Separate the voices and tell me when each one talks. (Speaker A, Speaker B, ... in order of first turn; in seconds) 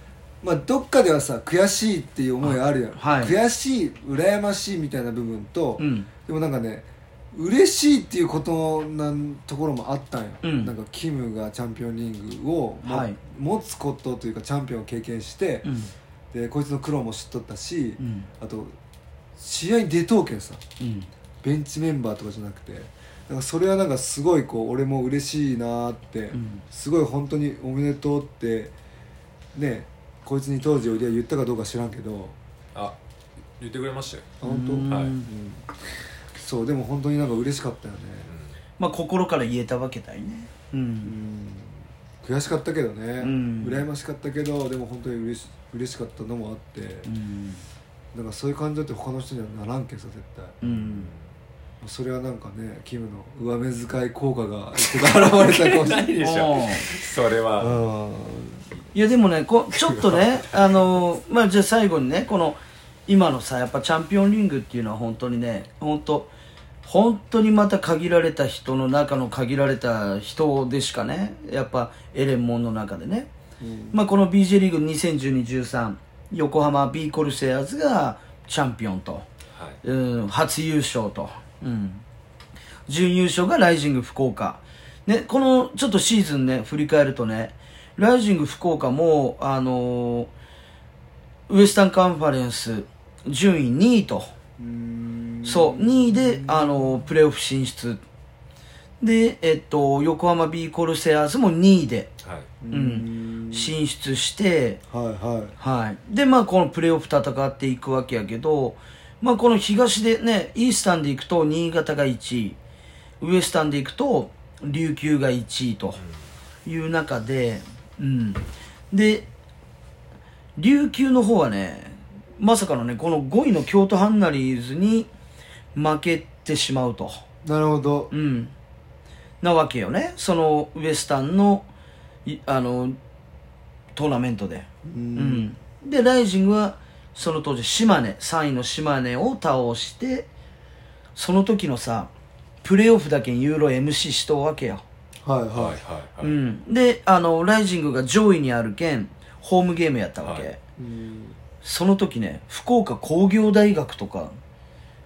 Speaker A: 0.4-15.7, 16.3-18.7, 19.4-20.6, 21.4-28.7, 29.5-32.4, 34.4-35.7, 36.3-38.3, 41.0-47.1, 48.1-50.6, 51.8-56.1, 57.6-58.7, 73.6-74.0, 94.6-97.0, 102.6-103.7, 104.9-105.5, 127.4-128.1, 134.8-135.5, 145.2-145.8, 150.8-151.4
Speaker B: 2.4-3.3, 5.8-6.1, 10.4-10.7, 12.8-13.2, 15.6-15.9, 18.0-18.3, 20.8-21.1, 26.3-26.6, 34.4-35.3, 38.8-41.1, 43.2-43.8, 47.0-47.6, 50.6-51.1, 56.2-56.9, 58.9-66.3, 66.8-73.3, 73.9-79.3, 79.8-82.0, 82.9-90.3, 91.5-94.3, 95.4-98.0, 99.0-102.1, 102.7-104.8, 105.6-112.6, 113.2-116.0, 116.7-119.3, 120.6-125.1, 125.7-127.2, 128.1-128.5, 129.4-131.7, 132.2-133.0, 133.9-140.3, 141.2-142.1, 142.6-144.8, 146.2-150.6, 151.6-154.3
Speaker C: 33.6-34.3, 34.9-35.1, 38.3-38.5, 50.6-51.3, 54.8-57.8, 59.8-60.5, 79.5-79.8, 102.2-102.5, 145.5-146.4, 150.2-150.5